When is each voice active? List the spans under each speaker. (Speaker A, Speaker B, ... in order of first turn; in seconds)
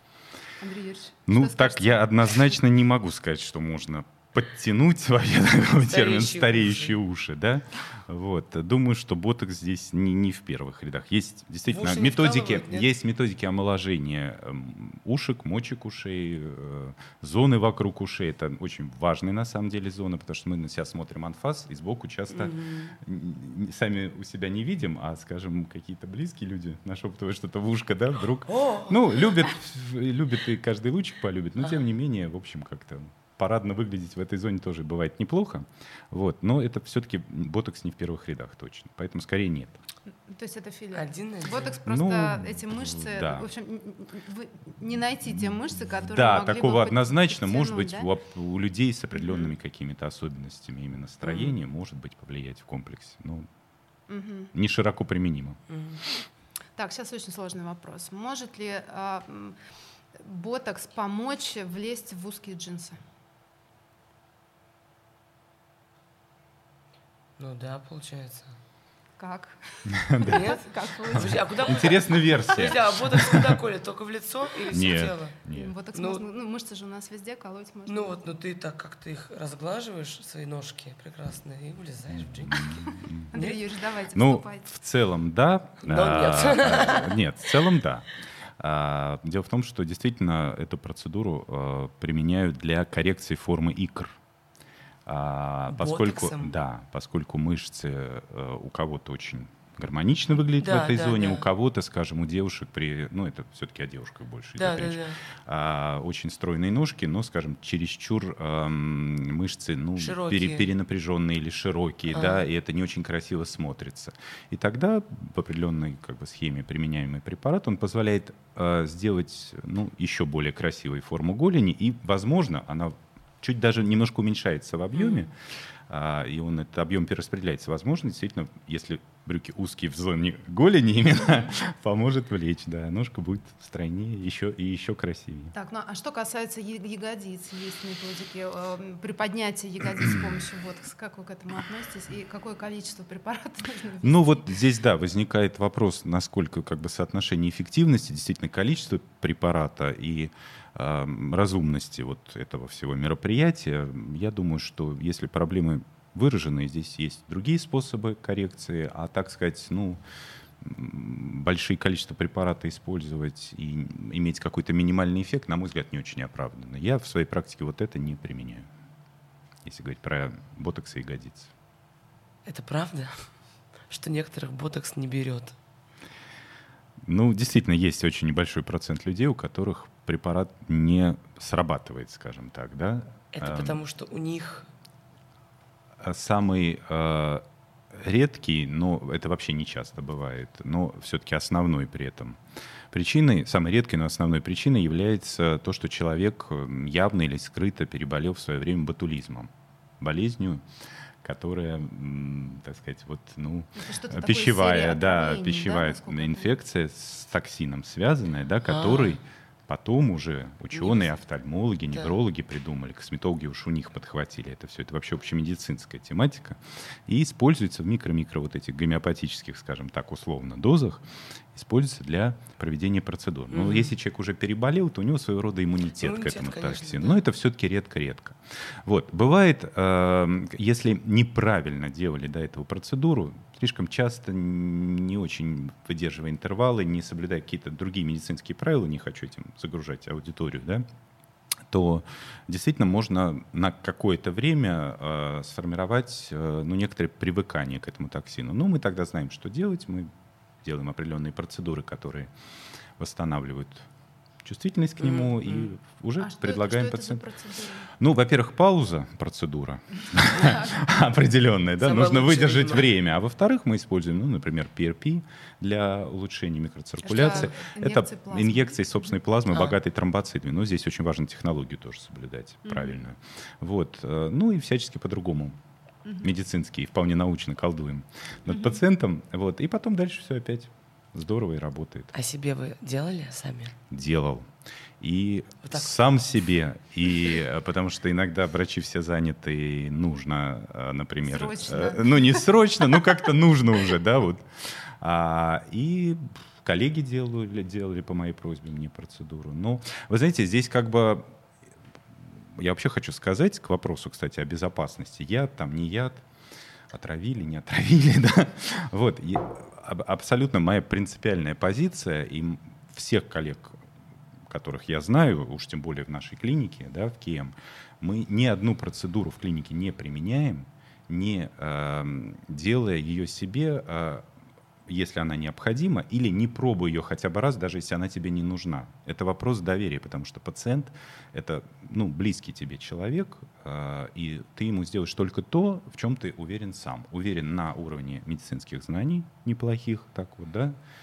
Speaker A: 0.6-2.4, 40.3-48.1, 49.1-49.5, 54.1-54.5, 56.8-59.5, 60.2-63.0, 69.2-71.9, 75.5-78.2, 83.3-84.7, 131.2-131.5, 135.5-144.5, 203.8-206.5, 256.2-257.9, 267.0-268.8, 272.6-273.0, 276.0-276.3, 278.5-278.8, 291.2-292.5
Speaker B: 1.3-39.8, 41.8-43.5, 46.0-53.5, 54.5-55.6, 69.9-70.4, 71.1-73.6, 74.7-75.7, 82.1-83.3, 84.1-88.1, 88.6-94.2, 95.0-125.3, 125.9-135.5, 144.0-160.0, 160.6-168.7, 169.6-171.5, 177.0-183.8, 186.0-192.4, 192.9-200.6, 201.2-240.8, 241.7-250.1, 250.6-252.3, 253.0-253.9, 254.4-257.2, 258.0-275.6, 276.2-282.1, 283.9-301.2, 302.5-306.2, 306.9-313.8, 314.5-324.3, 324.9-340.7
Speaker C: 5.8-7.0, 11.7-12.9, 22.3-22.9, 28.5-29.0, 40.9-41.8, 55.7-56.0, 67.4-68.5, 70.3-75.4, 75.9-76.2, 77.9-83.6, 85.8-87.2, 95.7-96.6, 100.6-101.5, 104.6-105.2, 110.0-110.7, 112.1-112.4, 124.9-125.3, 172.4-173.2, 173.9-175.6, 183.3-184.7, 208.7-209.2, 210.7-211.2, 211.9-212.2, 223.5-223.9, 226.0-227.2, 255.0-255.7, 261.8-262.9, 269.5-269.8, 282.1-283.8, 285.6-286.0